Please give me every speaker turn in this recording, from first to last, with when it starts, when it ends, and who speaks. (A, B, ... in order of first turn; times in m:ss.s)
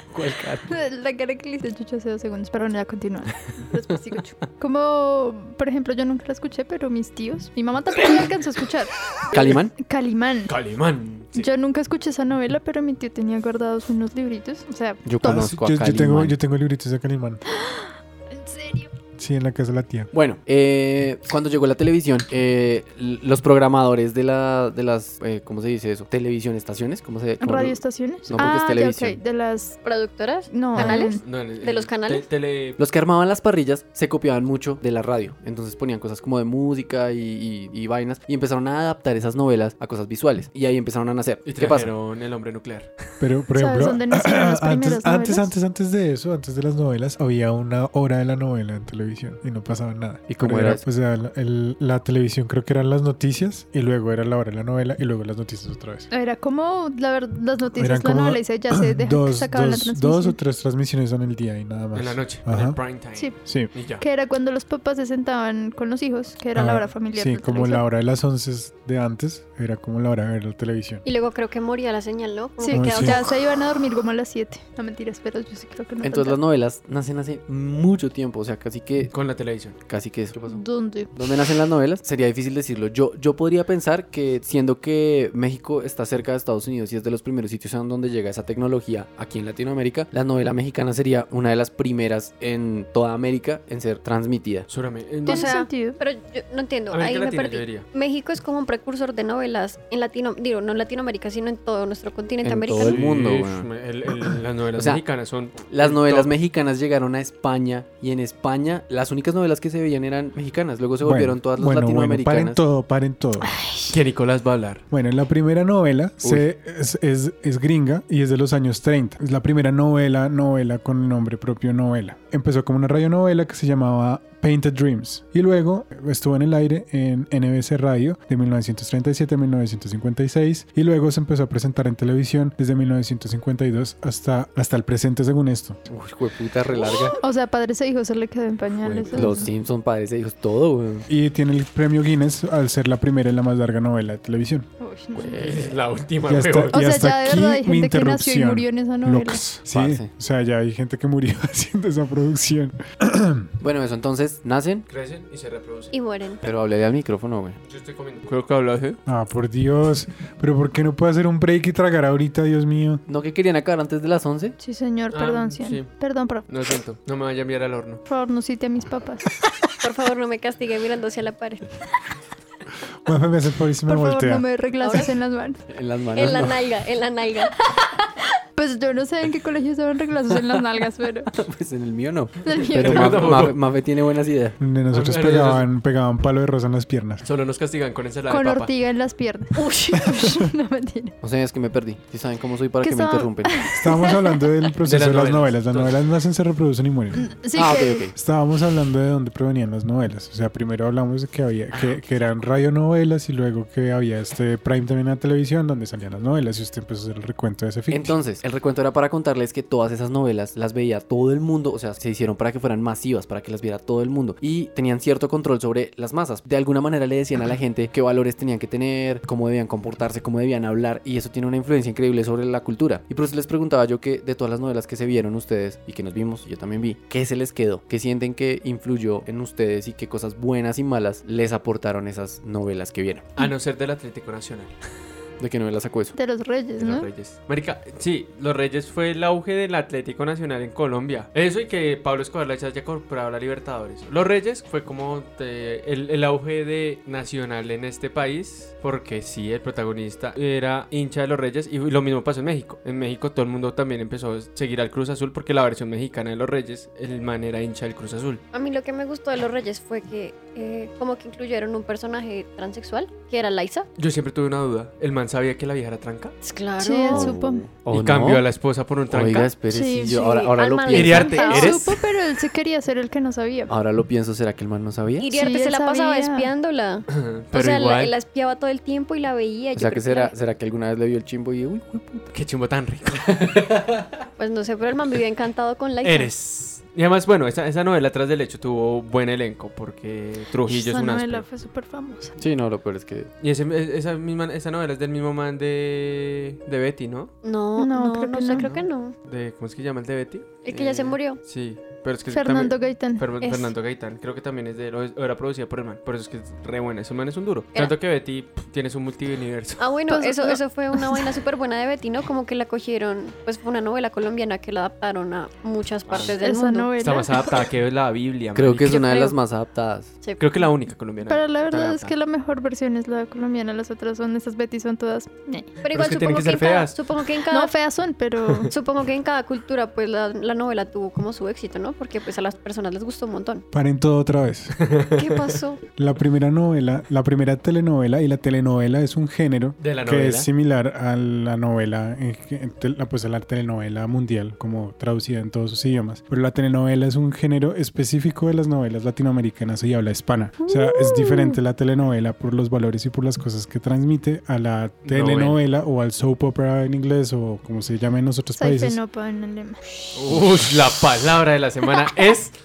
0:00.1-0:00.7 A
0:00.7-0:08.9 B
0:09.3-0:09.7 A
0:09.8-0:10.5 B
0:10.5-0:11.5 C
0:11.3-0:15.5 B
0:15.0-0:16.4 A
0:15.2-0:17.4 D
0:17.5-0:18.9 B
0:19.2-0:20.1 D
0:20.1-0:29.2 A
0:27.4-0:29.8 B
0:29.8-0:32.3 E
0:30.5-0:31.2 B
0:30.8-0:32.8 C
0:32.8-0:41.9 A
0:41.4-0:42.9 C
0:43.2-0:56.1 D
0:43.6-0:45.5 B
0:50.3-0:50.8 A
0:56.1-1:00.4 B
0:57.8-1:02.8 D
1:01.9-1:04.0 C
1:03.2-1:07.8 B
1:03.4-1:03.7 D
1:06.5-1:11.0 D
1:11.0-1:13.3 E
1:12.6-1:16.4 B
1:12.7-1:13.2 D
1:16.0-1:19.1 A
1:19.1-1:19.8 C
1:19.8-1:20.6 A
1:20.5-1:21.1 B
1:21.1-1:34.7 A
1:34.7-1:35.5 C
1:35.2-1:43.0 E
1:35.2-1:36.0 B
1:36.9-1:37.9 C
1:42.4-1:43.7 A
1:42.7-1:46.3 C
1:44.8-1:45.0 A
1:45.7-1:52.6 A
1:51.0-1:53.6 D
1:53.4-1:53.9 B
1:53.9-1:54.8 C
1:54.9-2:15.8 D
2:15.9-2:17.2 A
2:17.2-2:19.5 B
2:18.9-2:21.1 A
2:21.1-2:24.7 D
2:24.8-2:25.4 B
2:25.1-2:25.8 A
2:25.4-2:26.8 C
2:26.3-2:33.5 D
2:26.7-2:29.4 B
2:29.7-2:30.1 A
2:33.6-2:34.8 A
2:34.9-2:35.9 C
2:35.9-2:36.4 E
2:36.4-2:37.6 A
2:37.6-2:39.0 C
2:39.0-2:43.0 D
2:43.1-2:44.6 A
2:44.6-2:46.4 B
2:45.1-2:45.9 C
2:46.5-2:48.0 C
2:48.1-2:49.3 B
2:49.8-2:51.7 E
2:53.0-2:54.5 D
2:53.8-2:55.6 B
2:54.8-2:55.1 E
2:55.7-2:56.6 A
2:56.1-2:57.5 E
2:58.6-3:01.3 B
3:01.3-3:04.6 A
3:02.4-3:03.4 B
3:02.7-3:03.6 C
3:04.6-3:07.2 D
3:04.9-3:05.7 C
3:07.2-3:08.7 C
3:08.3-3:11.1 B
3:09.5-3:10.1 E
3:11.2-3:13.7 A
3:12.8-3:14.4 B
3:13.7-3:17.2 D
3:14.8-3:16.0 C
3:17.1-3:18.1 B
3:17.5-3:18.1 A
3:18.1-3:28.2 D
3:21.7-3:22.0 A
3:27.9-3:53.3 A
3:53.4-3:54.7 C
3:55.4-3:56.1 A
3:56.1-3:57.1 B
3:56.8-4:18.4 C
4:18.5-4:23.9 E
4:24.0-4:26.4 C
4:26.4-4:27.3 E
4:26.8-4:27.7 B
4:27.1-4:28.4 A
4:27.9-4:29.5 C
4:29.1-4:31.4 A
4:29.7-4:30.5 B
4:30.1-4:31.8 E
4:30.9-4:32.0 C
4:31.2-4:33.7 B
4:33.7-4:35.3 A
4:35.2-4:40.3 E
4:35.3-4:36.5 B
4:37.1-4:38.1 C
4:39.7-4:42.3 A
4:42.3-4:43.4 C
4:43.4-4:43.8 A
4:44.4-4:46.3 E
4:46.0-4:51.4 C
4:50.6-4:52.4 B
4:52.4-4:53.3 A
4:53.4-4:57.3 C
4:57.4-4:59.1 E
4:57.8-4:58.7 B
4:58.5-5:09.8 C
5:00.6-5:01.4 E
5:02.3-5:03.2 B
5:03.4-5:03.7 E
5:09.8-5:16.9 E
5:10.1-5:11.2 B
5:16.1-5:16.4 C
5:16.2-5:17.5 B
5:17.0-5:19.3 C
5:18.5-5:20.1 A
5:19.0-5:19.3 E
5:20.4-5:22.1 C
5:21.2-5:25.7 B
5:25.8-5:27.7 E
5:25.9-5:27.0 C
5:27.5-5:28.7 B
5:28.7-5:33.6 E
5:33.7-5:34.8 D
5:34.8-5:35.5 C
5:35.2-5:35.8 E
5:36.0-5:59.0 D
5:39.8-5:40.5 C
5:50.6-5:51.6 B
5:55.0-5:55.6 C
5:58.6-6:00.1 B
6:00.1-6:02.5 C